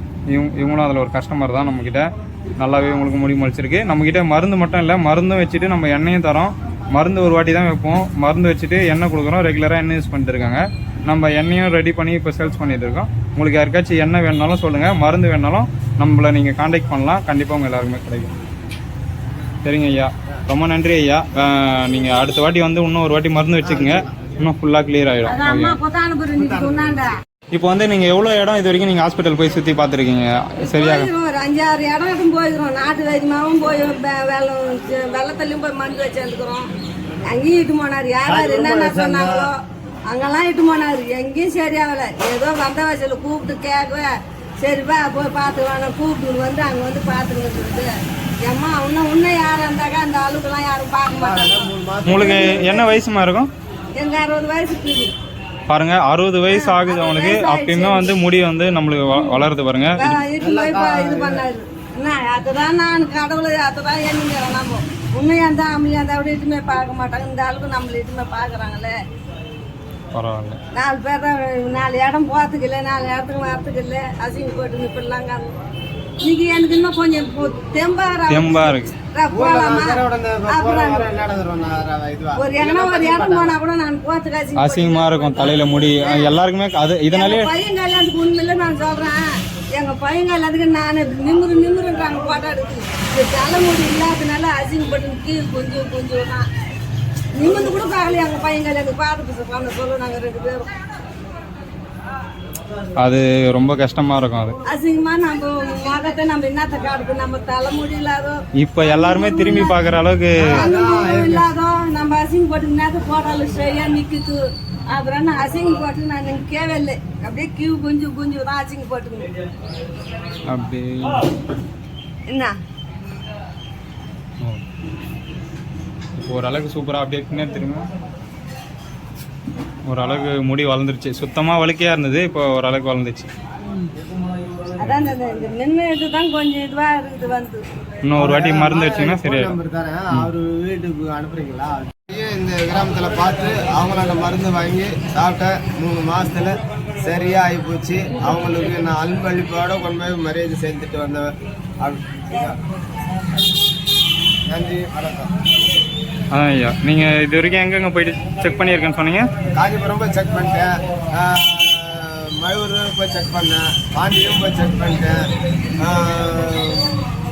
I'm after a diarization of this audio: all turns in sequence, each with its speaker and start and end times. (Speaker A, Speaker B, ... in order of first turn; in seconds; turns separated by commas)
Speaker A: 0.3-2.1, Speaker A: 2.6-18.3, Speaker A: 19.6-25.8, Speaker B: 23.6-24.3, Speaker C: 25.2-27.1, Speaker B: 26.4-27.0, Speaker A: 27.5-31.1, Speaker C: 30.6-36.7, Speaker C: 37.2-39.5, Speaker B: 38.2-39.5, Speaker C: 40.1-44.1, Speaker C: 44.6-47.9, Speaker C: 48.4-51.5, Speaker B: 51.1-52.8, Speaker A: 52.0-53.5, Speaker C: 52.2-52.9, Speaker C: 54.0-55.1, Speaker A: 55.7-60.2, Speaker C: 56.5-58.1, Speaker C: 59.1-59.5, Speaker C: 60.0-68.9, Speaker B: 60.4-61.5, Speaker A: 70.1-70.6, Speaker C: 70.7-75.5, Speaker C: 76.2-81.1, Speaker A: 78.3-78.9, Speaker B: 79.3-83.6, Speaker C: 82.3-86.4, Speaker A: 84.6-87.5, Speaker C: 87.1-89.2, Speaker C: 89.8-96.4, Speaker C: 97.3-100.7, Speaker A: 103.0-104.5, Speaker C: 104.7-109.9, Speaker A: 108.6-110.6, Speaker B: 110.4-111.5, Speaker C: 110.5-114.4, Speaker C: 114.9-119.3, Speaker A: 120.5-121.3, Speaker C: 122.3-122.5, Speaker A: 126.2-127.8, Speaker A: 129.8-133.3, Speaker C: 134.8-137.6, Speaker A: 138.0-139.6, Speaker B: 138.2-152.6, Speaker B: 154.5-155.3, Speaker A: 156.3-159.3, Speaker B: 159.5-165.2, Speaker B: 165.8-166.9